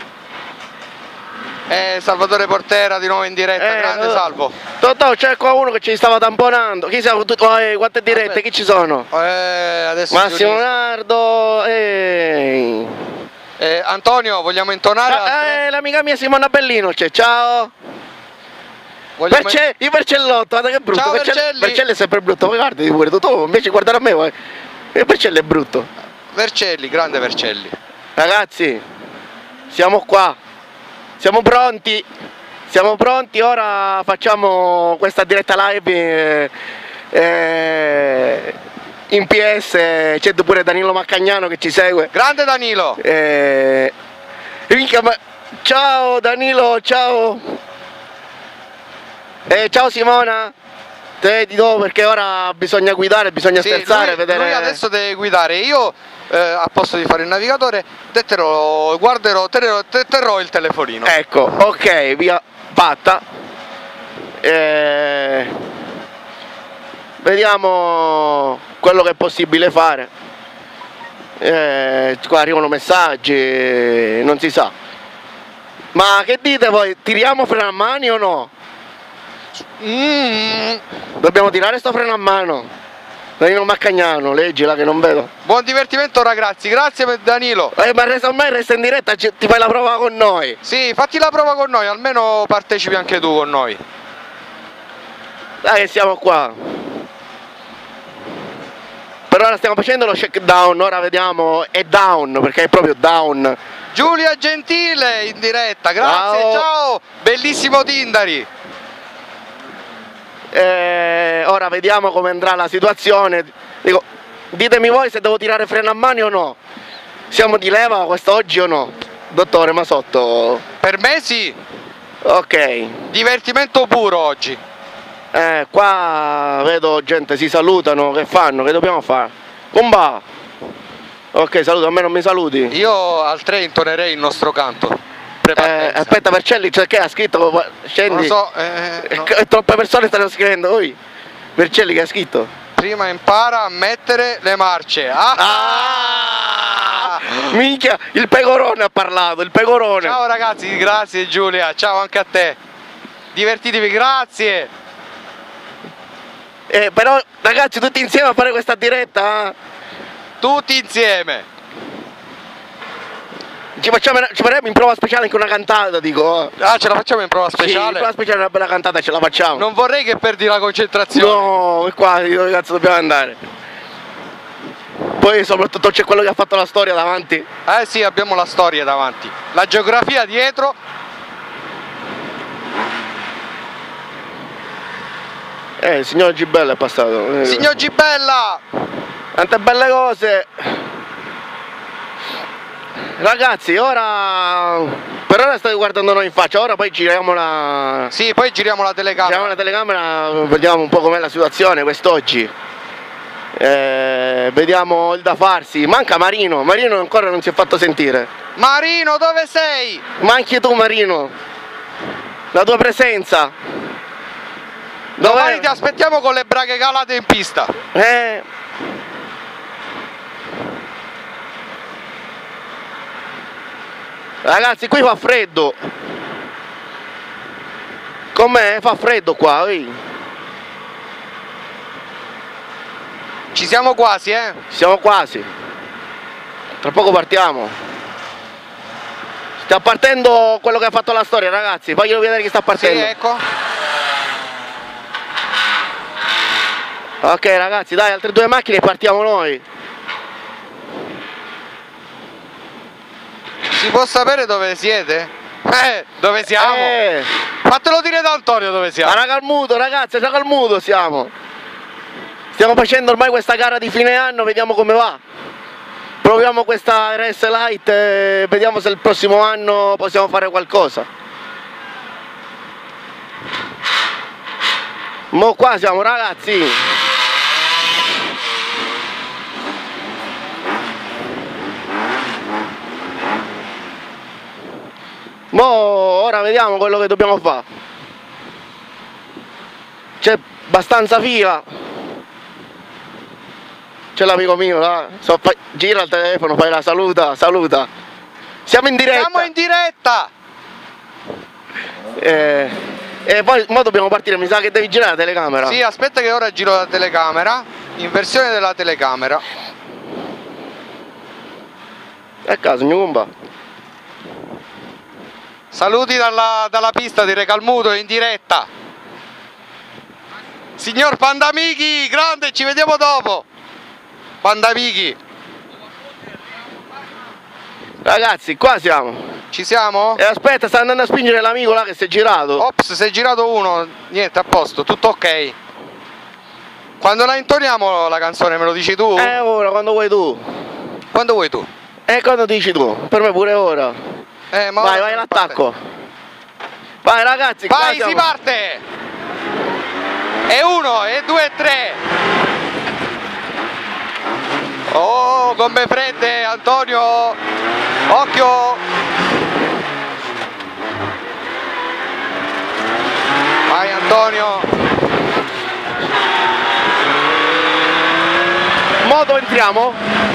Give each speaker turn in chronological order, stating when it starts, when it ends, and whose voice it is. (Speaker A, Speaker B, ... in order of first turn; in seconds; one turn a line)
Speaker A: 1.7-4.5
Speaker B: 3.5-4.2
Speaker B: 4.8-9.1
Speaker A: 8.1-8.4
Speaker A: 9.1-10.8
Speaker B: 10.1-13.0
Speaker A: 13.6-15.6
Speaker B: 15.1-17.7
Speaker A: 19.2-19.6
Speaker B: 19.3-24.3
Speaker A: 20.9-21.8
Speaker B: 24.9-25.9
Speaker A: 26.3-27.7
Speaker B: 28.2-28.8
Speaker B: 29.7-30.4
Speaker B: 31.2-32.0
Speaker B: 32.7-36.5
Speaker B: 37.1-38.6
Speaker B: 39.1-42.1
Speaker A: 42.1-43.0
Speaker B: 43.0-43.9
Speaker B: 44.7-47.4
Speaker B: 49.5-50.5
Speaker B: 51.2-54.8
Speaker A: 53.6-61.1
Speaker B: 61.0-63.2
Speaker B: 64.4-65.5
Speaker B: 67.2-70.1
Speaker B: 71.4-74.7
Speaker B: 75.9-78.5
Speaker A: 79.8-80.8
Speaker B: 81.2-82.7
Speaker B: 83.4-85.3
Speaker A: 85.4-87.7
Speaker B: 87.7-90.6
Speaker A: 90.6-93.8
Speaker B: 95.6-96.5
Speaker B: 99.3-103.6
Speaker A: 103.9-108.5
Speaker B: 106.0-106.7
Speaker B: 110.5-116.6
Speaker B: 117.3-120.6
Speaker A: 120.8-121.6
Speaker B: 122.2-123.0
Speaker A: 123.1-124.6
Speaker B: 125.3-130.2
Speaker B: 131.3-132.7
Speaker A: 132.7-136.2
Speaker B: 135.6-138.3
Speaker A: 138.1-139.3
Speaker B: 139.0-141.0
Speaker B: 141.6-142.5
Speaker A: 142.8-147.4
Speaker B: 145.3-150.2
Speaker A: 150.0-152.6
Speaker A: 153.3-154.7
Speaker B: 156.7-159.5
Speaker A: 160.4-161.4
Speaker B: 163.8-166.5
Speaker A: 166.6-168.1
Speaker B: 167.5-169.7
Speaker A: 169.5-171.5
Speaker B: 171.1-173.4
Speaker B: 175.2-177.4
Speaker A: 177.7-180.8
Speaker B: 185.8-187.7
Speaker A: 187.4-188.6
Speaker B: 189.3-190.7
Speaker B: 193.2-198.1
Speaker A: 198.1-199.5
Speaker B: 199.2-202.5
Speaker B: 203.6-208.3
Speaker A: 208.6-210.0
Speaker B: 210.2-211.3
Speaker B: 212.5-213.5
Speaker B: 215.2-215.7
Speaker A: 215.2-217.7
Speaker B: 217.9-218.4
Speaker B: 224.4-225.8
Speaker B: 228.3-230.0
Speaker A: 233.5-234.6
Speaker B: 234.7-235.5
Speaker B: 236.8-237.7
Speaker B: 239.6-243.1
Speaker A: 242.7-243.4
Speaker B: 247.2-249.6
Speaker A: 253.7-256.9
Speaker B: 256.5-257.3
Speaker A: 257.6-259.2
Speaker B: 259.0-261.3
Speaker B: 262.5-265.2
Speaker B: 266.2-271.1
Speaker B: 275.3-276.8
Speaker B: 285.5-287.6
Speaker B: 290.2-291.6
Speaker B: 294.1-297.9
Speaker B: 298.7-299.5
Speaker A: 299.1-300.3
Speaker B: 302.2-302.7
Speaker B: 303.3-305.8
Speaker A: 305.6-309.4
Speaker B: 312.5-313.3
Speaker A: 315.7-318.7
Speaker A: 320.8-323.4
Speaker A: 324.4-325.2
Speaker B: 328.0-329.2
Speaker A: 329.5-330.2
Speaker B: 330.2-332.6
Speaker A: 332.6-335.5
Speaker A: 337.0-339.4
Speaker B: 339.1-340.4
Speaker A: 341.1-341.7
Speaker B: 342.1-344.0
Speaker A: 344.5-345.6
Speaker B: 344.8-345.8
Speaker B: 347.0-348.3
Speaker A: 347.7-348.8
Speaker A: 350.5-352.0
Speaker A: 354.9-357.4
Speaker A: 358.1-358.8
Speaker A: 363.7-364.7
Speaker B: 369.0-370.0